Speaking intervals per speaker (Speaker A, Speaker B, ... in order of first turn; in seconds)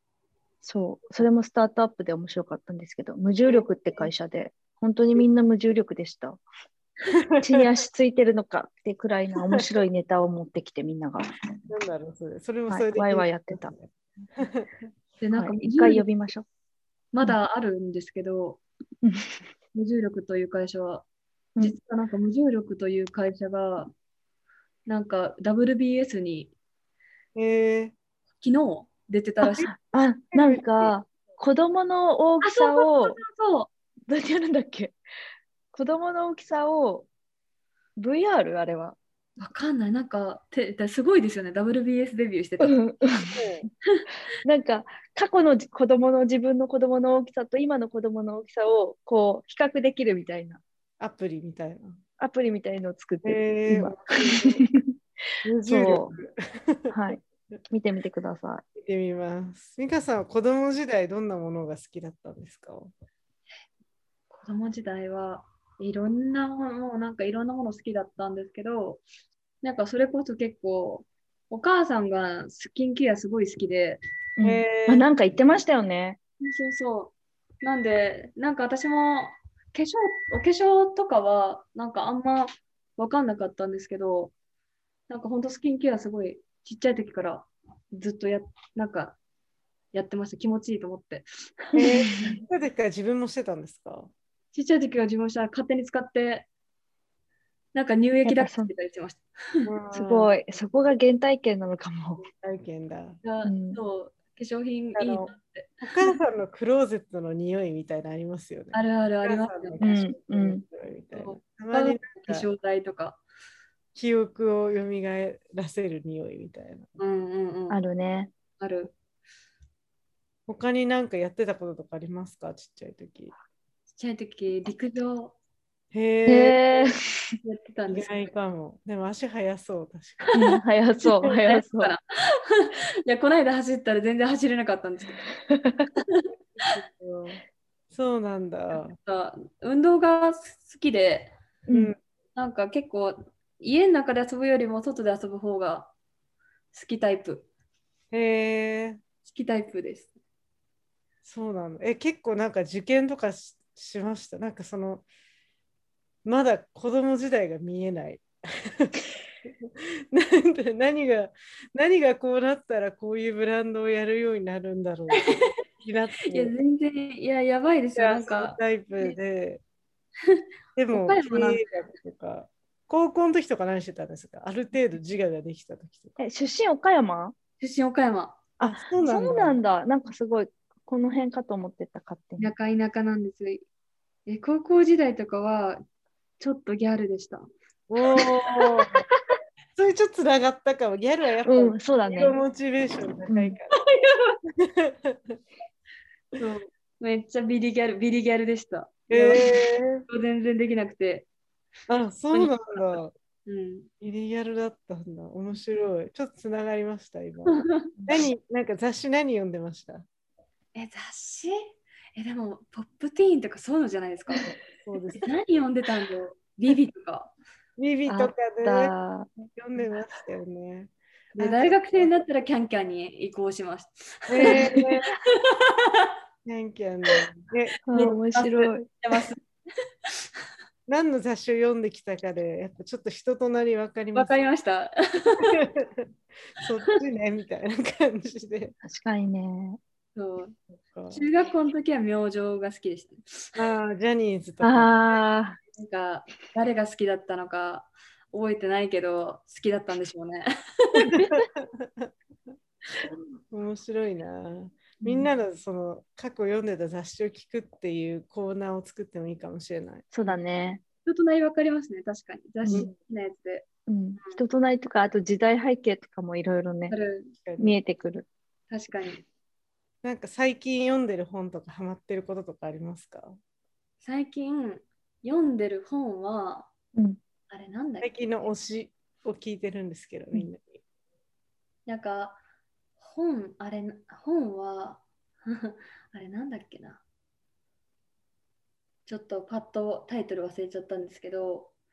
Speaker A: 0.6-6.4, 7.4-11.3, 12.7-13.7, 15.4-16.5, 19.0-19.4, 29.6-33.2, 34.1-35.0, 35.7-37.1, 38.0-39.0, 42.6-43.4, 44.4-50.6, 52.2-54.9, 55.6-56.1, 56.9-58.6, 74.4-76.2, 91.8-92.4, 98.2-98.7, 99.9-102.2, 103.4-103.8, 109.8-110.6, 117.7-118.3, 126.3-127.4, 130.3-131.9, 135.5-135.9, 141.7-141.9, 176.2-177.3, 178.7-182.5, 191.4-192.4, 193.3-193.6, 208.0-208.2, 218.1-219.3, 224.5-224.8, 227.9-228.9, 238.8-239.8, 244.6-245.6, 255.0-255.3, 260.1-260.8, 262.6-262.9, 263.9-266.9, 267.6-268.3
Speaker B: 3.5-4.1, 7.1-7.6, 11.7-14.7, 27.4-27.9, 30.3-30.9, 43.4-43.7, 51.0-52.0, 53.2-54.6, 55.5-57.0, 58.8-62.9, 74.4-75.1, 91.8-94.1, 99.7-100.4, 102.2-103.2, 105.0-105.3, 105.8-112.5, 114.0-116.9, 120.5-123.3, 125.9-126.6, 127.9-130.4, 136.6-139.0, 141.7-142.0, 148.1-149.0, 151.2-155.1, 156.2-166.5, 168.0-169.6, 170.8-176.2, 178.6-179.6, 187.9-189.0, 189.8-193.7, 194.6-195.4, 199.1-200.1, 201.9-203.1, 204.0-210.1, 214.7-215.3, 217.8-218.9, 219.6-222.1, 224.3-225.1, 226.4-227.9, 230.9-234.3, 235.6-236.1, 236.6-238.8, 240.9-241.2, 243.6-244.9, 251.1-252.1, 253.5-260.1, 267.4-267.8, 270.0-273.4, 278.0-280.8
Speaker C: 15.2-16.1, 17.1-18.6, 19.7-21.1, 21.6-23.9, 24.9-26.5, 28.4-29.7, 32.4-33.7, 39.4-42.8, 64.3-69.0, 69.6-74.0, 76.4-84.3, 85.1-89.2, 89.9-92.4, 94.5-96.5, 97.7-99.7, 103.2-106.1, 108.7-109.8, 111.1-113.2, 117.0-117.8, 118.6-118.9, 123.9-125.3, 127.4-128.3, 131.1-135.2, 138.7-141.3, 142.4-145.9, 146.7-147.5, 149.2-150.1, 166.3-169.2, 170.3-171.7, 177.6-178.4, 182.4-183.7, 184.3-185.8, 186.4-187.4, 188.2-188.6, 193.9-194.4, 196.4-201.3, 202.3-203.9, 207.5-207.9, 210.8-211.6, 212.2-214.5, 215.2-217.3, 221.4-224.8, 225.5-226.1, 227.9-229.4, 234.1-235.6, 240.2-240.6, 241.1-243.6, 245.8-251.3, 261.1-263.7, 266.9-267.3, 268.7-269.2, 274.0-276.7, 277.5-278.1, 281.9-282.4, 283.0-287.0, 289.1-291.7